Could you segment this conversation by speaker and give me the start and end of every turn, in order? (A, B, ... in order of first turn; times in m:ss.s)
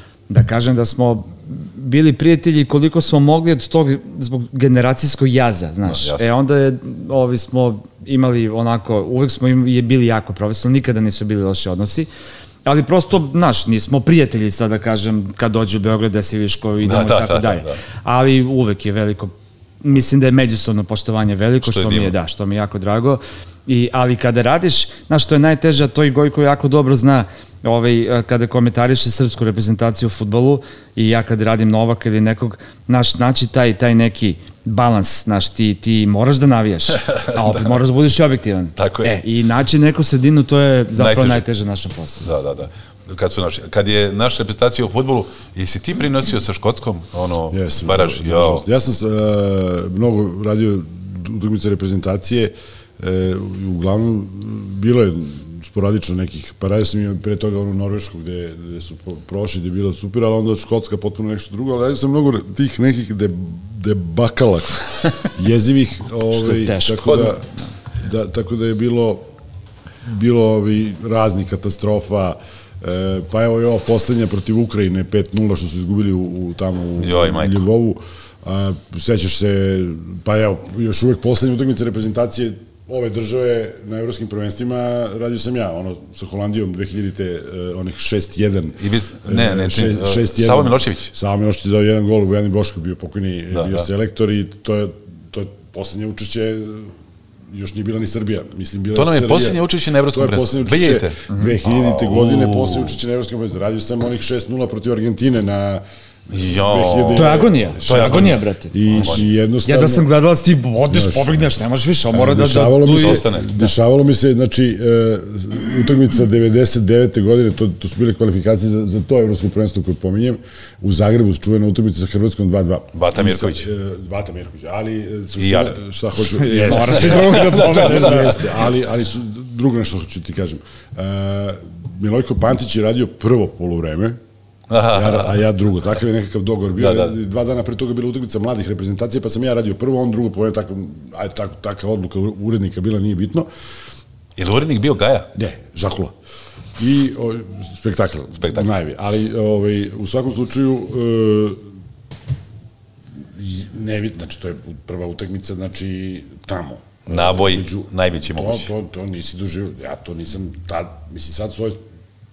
0:00.3-0:12.1 A
0:05.9-0:06.3 B
0:12.6-0:42.3 A
0:16.8-0:17.8 B
0:21.6-0:22.1 B
0:36.9-0:37.8 B
0:38.8-0:39.2 B
0:41.0-0:41.4 B
0:42.2-0:48.7 B
0:47.5-1:07.5 C
1:06.5-1:07.3 A
1:08.0-1:09.3 C
1:10.0-1:36.9 C
1:17.0-1:17.6 B
1:28.8-1:31.1 B
1:33.5-1:33.9 B
1:37.5-1:50.1 C
1:38.9-1:43.0 B
1:46.3-1:49.3 B
1:47.1-1:48.8 A
1:49.7-1:53.2 A
1:50.9-1:51.4 C
1:52.1-2:14.2 C
1:52.9-1:53.7 B
2:02.9-2:03.7 B
2:05.4-2:05.8 B
2:06.4-2:08.4 A
2:06.8-2:08.4 B
2:14.7-2:15.4 B
2:14.9-2:23.5 C
2:16.8-2:17.2 B
2:24.4-2:25.3 B
2:25.4-2:26.1 C
2:26.8-2:31.6 C
2:28.4-2:28.7 B
2:33.2-2:41.8 C
2:37.1-2:38.7 B